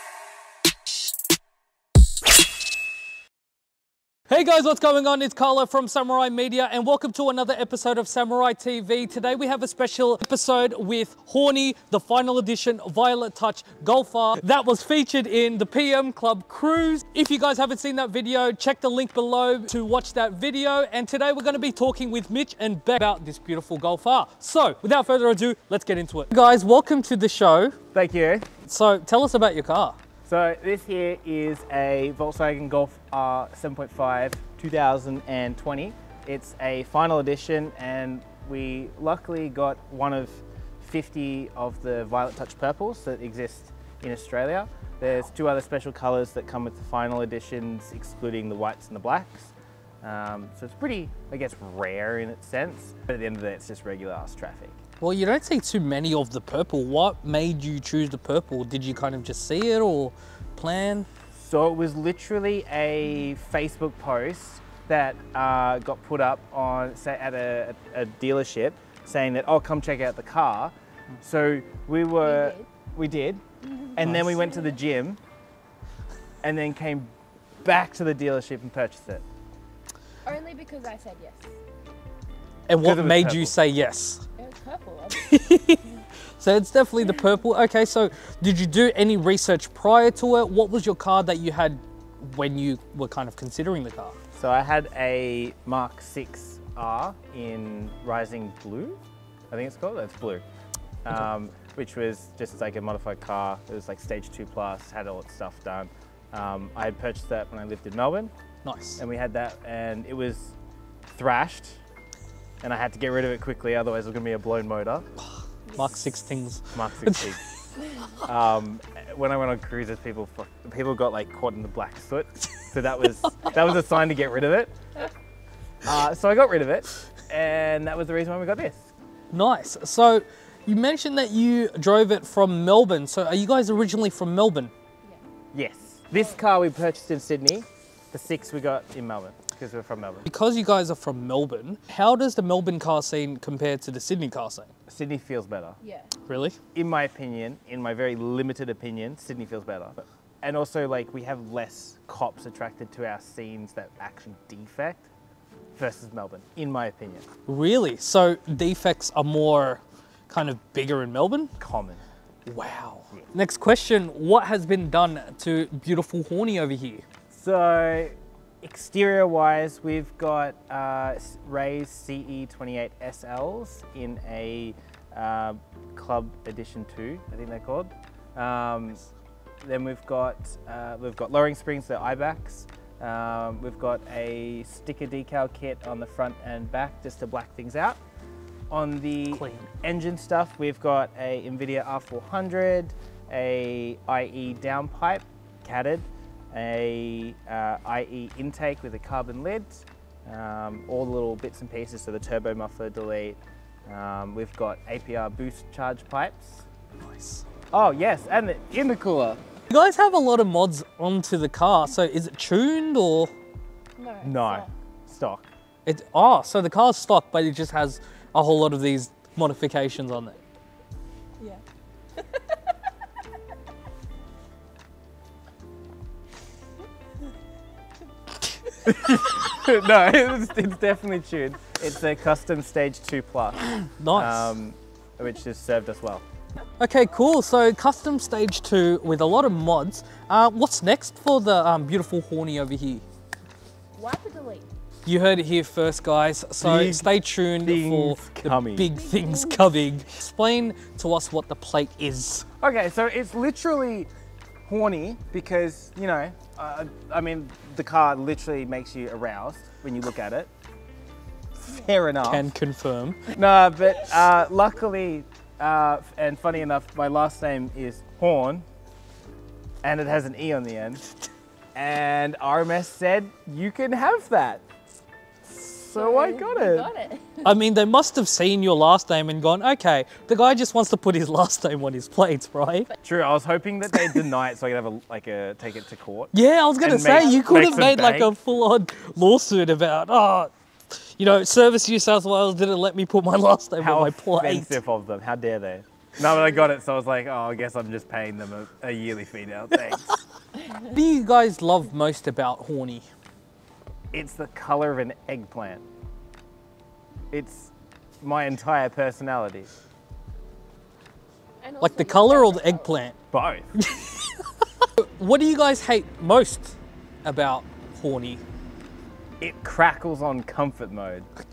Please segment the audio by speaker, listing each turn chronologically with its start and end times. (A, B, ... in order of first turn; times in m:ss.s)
0:04.3-0:27.8 A
0:27.9-0:28.4 B
0:28.6-0:30.0 A
0:30.2-0:54.8 B
0:55.0-1:01.1 A
1:01.3-1:13.4 B
1:12.2-1:12.7 C
1:13.6-1:14.8 C
1:14.0-1:15.2 B
1:16.4-1:17.1 B
1:17.6-1:19.2 B
1:20.2-1:21.5 C
1:22.7-1:24.2 A
1:22.8-1:23.5 B
1:24.4-1:26.0 C
1:25.1-1:25.8 A
1:26.4-1:34.2 A
1:34.3-1:39.0 B
1:39.5-1:40.4 B
1:41.0-1:48.3 B
1:48.6-1:49.0 A
1:49.0-1:50.6 B
1:51.1-1:51.8 B
1:52.6-1:55.0 B
1:55.7-1:55.9 C
1:55.8-1:57.3 A
1:56.7-1:57.4 B
1:58.2-2:04.7 B
2:05.8-2:08.9 B
2:09.3-2:14.7 A
2:15.5-2:20.2 B
2:20.2-2:24.7 A
2:24.9-2:25.8 B
2:25.8-2:26.1 C
2:26.2-2:26.6 A
2:26.7-2:35.1 B
2:35.8-2:37.2 B
2:37.5-2:41.5 A
2:41.6-2:42.0 B
2:42.5-2:47.0 A
2:47.3-2:59.0 B
2:59.6-3:08.0 B
3:08.7-3:26.6 B
3:09.3-3:09.7 A
3:27.0-3:27.4 A
3:27.7-3:29.4 B
3:29.7-3:33.3 A
3:34.0-3:34.7 C
3:34.2-3:35.5 B
3:35.8-3:40.4 A
3:42.2-3:42.6 C
3:48.8-3:56.2 B
3:54.0-3:54.5 A
3:56.8-4:03.0 A
4:04.0-4:04.7 C
4:05.0-4:12.4 A
4:06.6-4:08.9 B
4:08.9-4:09.8 C
4:12.6-4:14.1 B
4:14.7-4:20.5 B
4:21.6-4:22.5 B
4:22.2-4:23.4 A
4:23.3-4:28.6 B
4:29.8-4:31.0 B
4:31.7-4:34.6 B
4:35.4-4:36.9 B
4:35.9-4:37.6 C
4:37.4-4:42.9 A
4:43.0-4:48.3 B
4:46.3-4:54.8 A
4:47.1-4:47.9 C
4:53.8-5:00.2 B
5:00.8-5:03.0 A
5:04.1-5:05.8 B
5:07.3-5:09.7 B
5:11.6-5:13.0 C
5:11.8-5:13.1 A
5:13.3-5:13.7 B
5:13.8-5:14.3 A
5:14.8-5:18.4 A
5:19.4-5:21.3 B